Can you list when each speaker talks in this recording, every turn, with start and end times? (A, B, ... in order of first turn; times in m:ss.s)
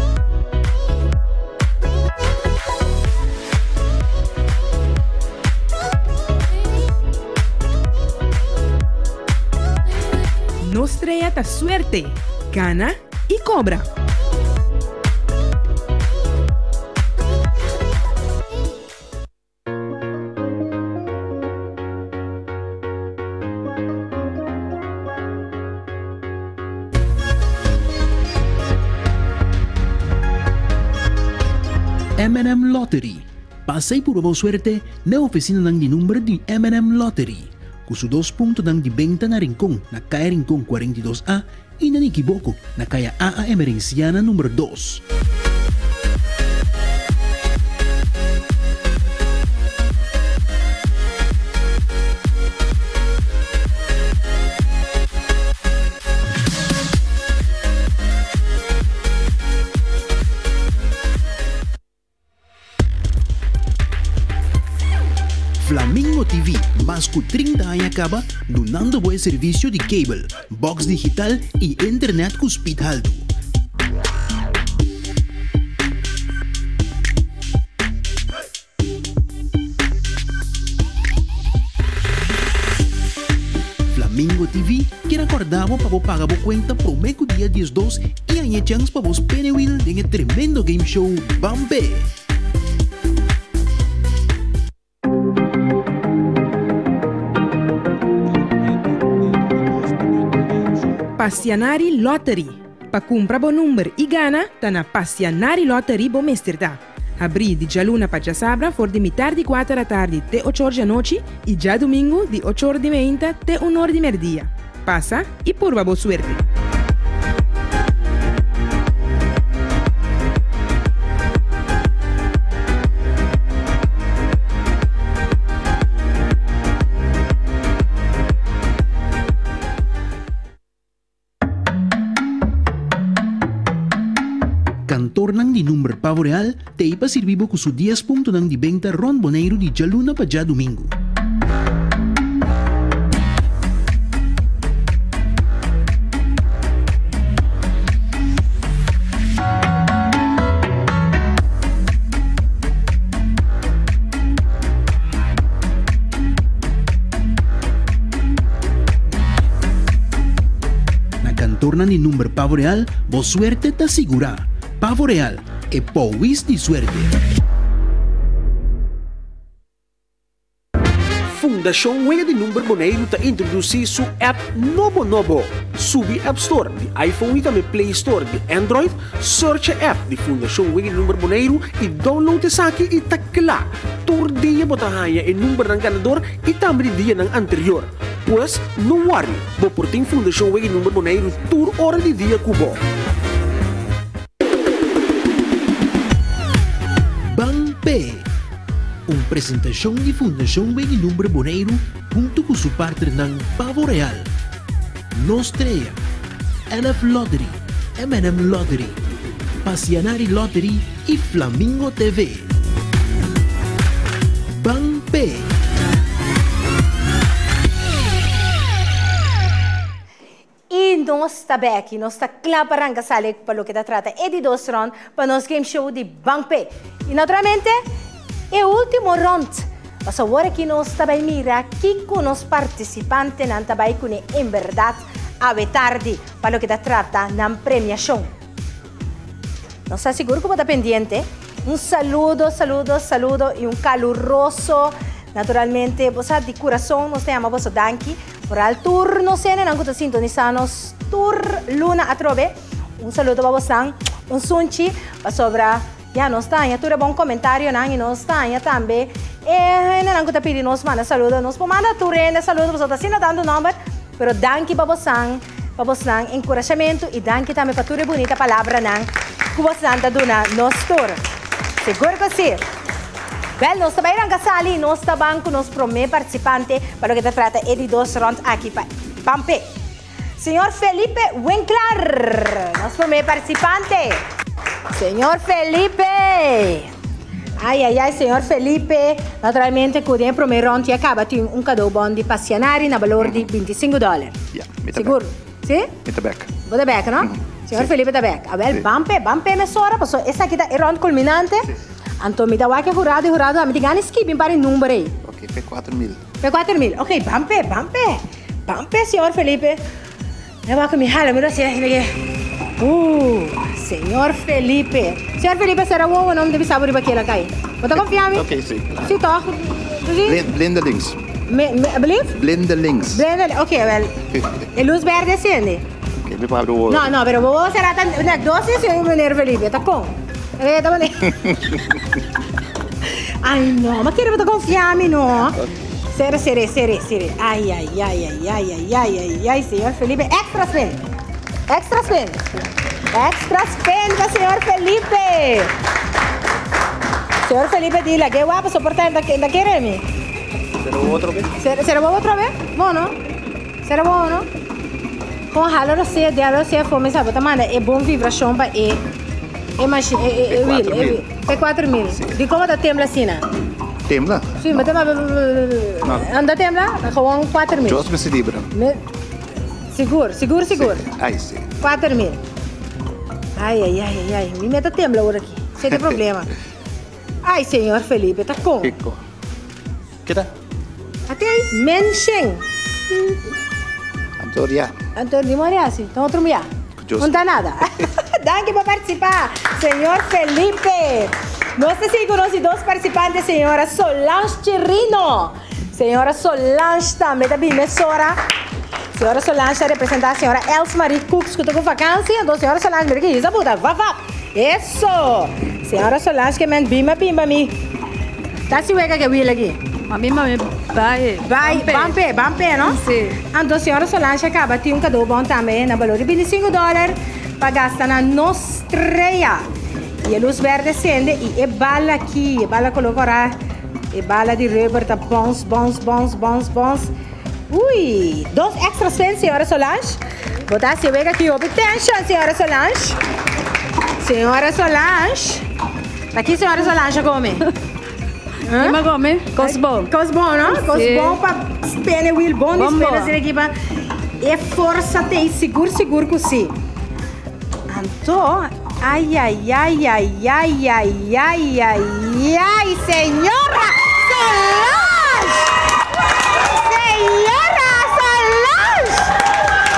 0:10.6-0:13.9 A
0:32.2-0:45.0 B
1:05.6-1:13.3 B
1:23.9-1:32.1 B
1:41.2-1:56.4 A
2:14.9-2:20.9 B
2:41.2-2:47.1 B
2:51.3-3:12.8 C
3:17.2-3:18.3 B
3:19.1-3:24.3 B
3:25.1-3:26.0 B
3:26.7-3:29.0 B
3:29.6-3:32.5 B
3:34.6-3:35.5 B
3:40.7-3:47.8 D
3:48.5-3:58.3 D
3:59.9-4:31.2 D
4:31.8-4:32.6 D
4:33.6-4:39.7 D
4:40.4-4:44.2 D
4:44.9-4:46.9 D
4:47.6-4:54.4 D
4:54.5-4:55.2 E
4:54.9-4:55.9 D
4:56.0-4:56.5 E
4:56.7-5:01.7 D
5:02.2-5:05.1 D
5:05.2-5:06.2 E
5:06.4-5:09.8 D
5:10.7-5:12.2 D
5:12.8-5:18.5 D
5:18.3-5:19.0 E
5:19.0-5:20.4 D
5:20.2-5:21.2 E
5:21.5-5:22.4 D
5:22.4-5:23.2 E
5:23.1-5:24.2 D
5:24.8-5:25.8 D
5:26.2-5:27.1 E
5:26.9-5:31.8 D
5:33.0-5:35.6 D
5:36.1-5:41.0 D
5:41.7-5:42.4 D
5:43.1-5:45.7 D
5:47.5-5:50.0 D
5:51.6-5:53.2 D
5:53.8-5:54.5 D
5:55.5-5:59.0 D
5:59.8-6:03.4 D
6:00.5-6:01.2 E
6:04.1-6:04.9 E
6:04.6-6:08.0 D
6:07.9-6:08.7 E
6:08.7-6:09.0 D
6:09.9-6:11.1 D
6:10.7-6:11.7 E
6:11.8-6:12.4 D
6:13.6-6:16.5 D
6:17.4-6:19.0 D
6:18.8-6:19.2 E
6:21.3-6:22.6 D
6:24.4-6:24.9 E
6:25.2-6:26.7 D
6:27.0-6:27.4 E
6:27.2-6:38.4 D
6:39.2-6:47.8 D
6:48.7-6:49.8 D
6:50.1-6:52.2 F
6:51.4-6:59.7 D
6:52.8-6:53.4 F
7:00.2-7:03.6 D
7:04.1-7:07.1 D
7:07.7-7:13.2 D
7:14.2-7:15.6 D
7:16.3-7:17.6 D
7:18.6-7:19.0 D
7:18.7-7:20.1 F
7:19.6-7:23.7 D
7:20.6-7:21.4 F
7:22.8-7:23.4 F
7:24.4-7:26.7 D
7:27.9-7:35.8 D
7:36.6-7:39.4 D